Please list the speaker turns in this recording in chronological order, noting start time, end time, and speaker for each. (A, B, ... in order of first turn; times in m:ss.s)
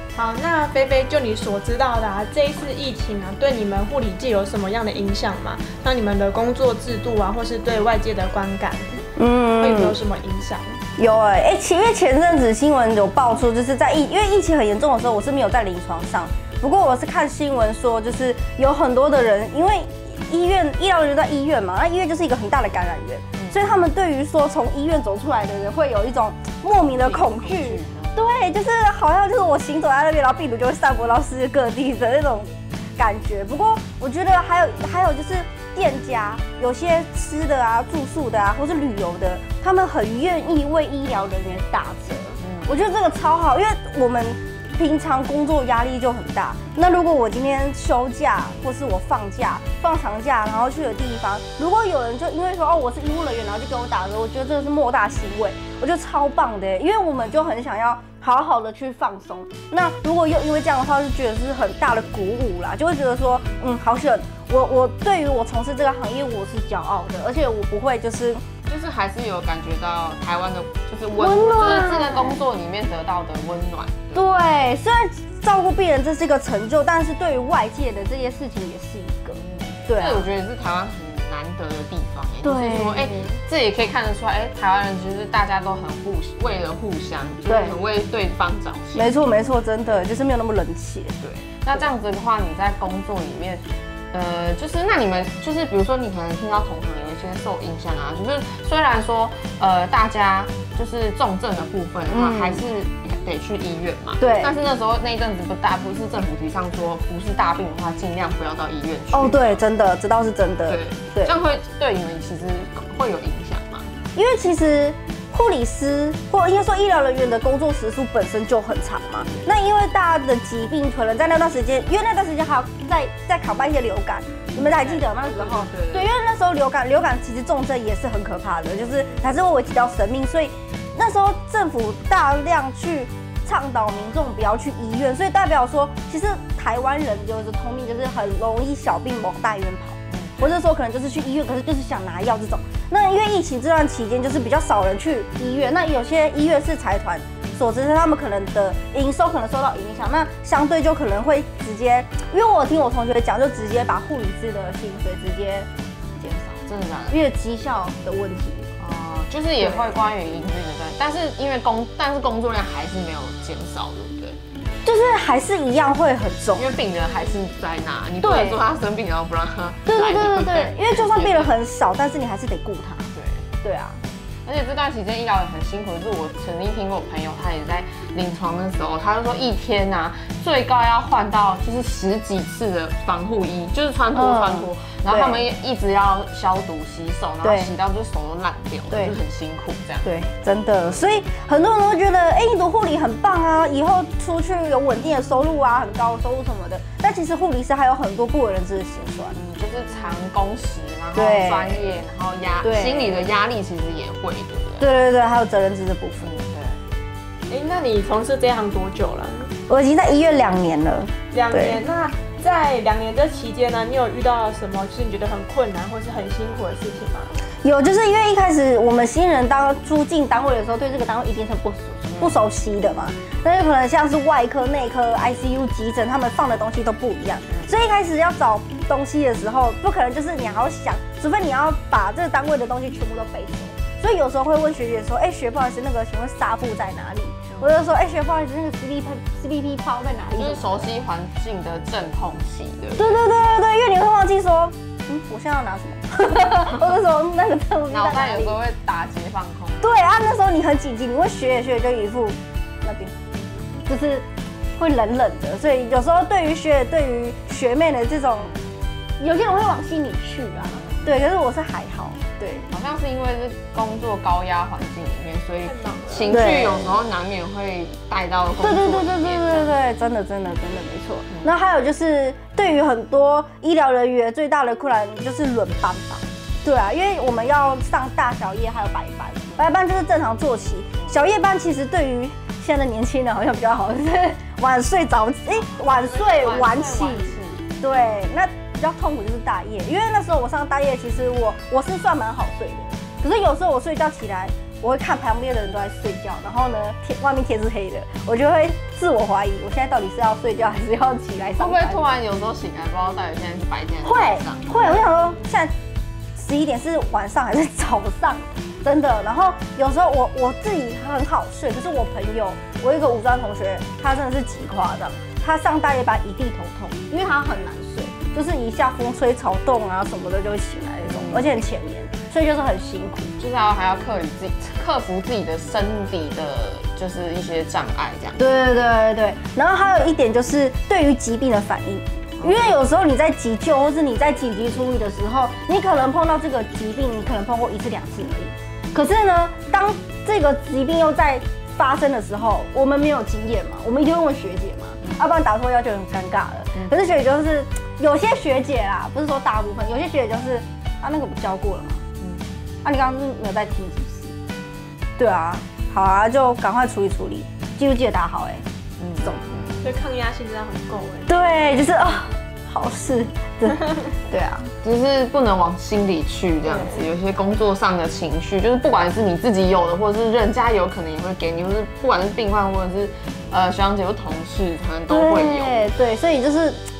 0:00.1-0:09.0 A
0:09.2-0:10.0 B
0:09.6-0:10.8 A
0:11.0-1:08.4 B
0:23.4-0:23.7 C
0:26.9-0:28.2 C
0:42.4-0:42.9 C
1:08.6-1:14.3 C
1:11.1-1:12.4 B
1:14.1-1:20.3 B
1:19.3-1:29.1 C
1:22.4-1:23.4 B
1:27.5-1:27.8 B
1:28.9-1:31.1 B
1:31.2-1:49.6 C
1:42.1-1:42.6 B
1:44.2-1:44.5 B
1:49.1-1:51.3 B
1:50.7-1:53.9 C
1:54.1-2:35.7 B
2:04.5-2:06.1 C
2:20.1-2:20.6 C
2:36.2-2:37.2 C
2:37.1-2:38.7 B
2:38.8-2:44.4 C
2:39.6-2:39.9 B
2:44.8-2:46.7 B
2:46.5-2:51.5 C
2:48.2-2:48.6 B
2:49.9-2:53.1 B
2:53.1-2:53.4 C
2:53.6-2:54.0 B
2:54.4-3:10.1 C
3:04.1-3:05.4 B
3:07.4-3:07.7 B
3:08.9-3:09.2 B
3:10.0-3:19.4 B
3:19.3-3:24.9 C
3:21.1-3:21.9 B
3:22.6-3:23.3 B
3:24.8-3:26.3 B
3:26.2-3:26.8 C
3:27.5-3:29.5 A
3:29.7-3:31.8 B
3:31.3-3:37.4 A
3:37.6-4:00.9 B
3:42.1-3:42.4 C
4:00.3-4:03.2 C
4:03.0-4:08.6 B
4:07.9-4:10.0 C
4:09.8-4:13.1 B
4:13.8-4:14.2 B
4:14.8-4:18.5 B
4:19.2-4:22.6 B
4:20.7-4:21.1 C
4:22.7-4:29.7 C
4:25.6-4:26.4 A
4:26.3-4:27.0 B
4:28.6-5:02.0 B
4:45.5-4:47.6 C
5:01.6-5:04.7 C
5:04.0-5:05.7 B
5:06.3-5:23.3 B
5:21.1-5:21.5 C
5:23.4-5:28.4 C
5:28.4-5:52.0 B
5:32.4-5:32.7 C
5:52.8-5:54.3 B
5:55.2-5:58.6 B
5:59.0-5:59.9 C
5:59.2-5:59.4 B
5:59.8-6:02.0 A
6:01.3-6:04.7 B
6:04.8-6:15.9 C
6:06.6-6:07.1 A
6:15.1-6:16.8 B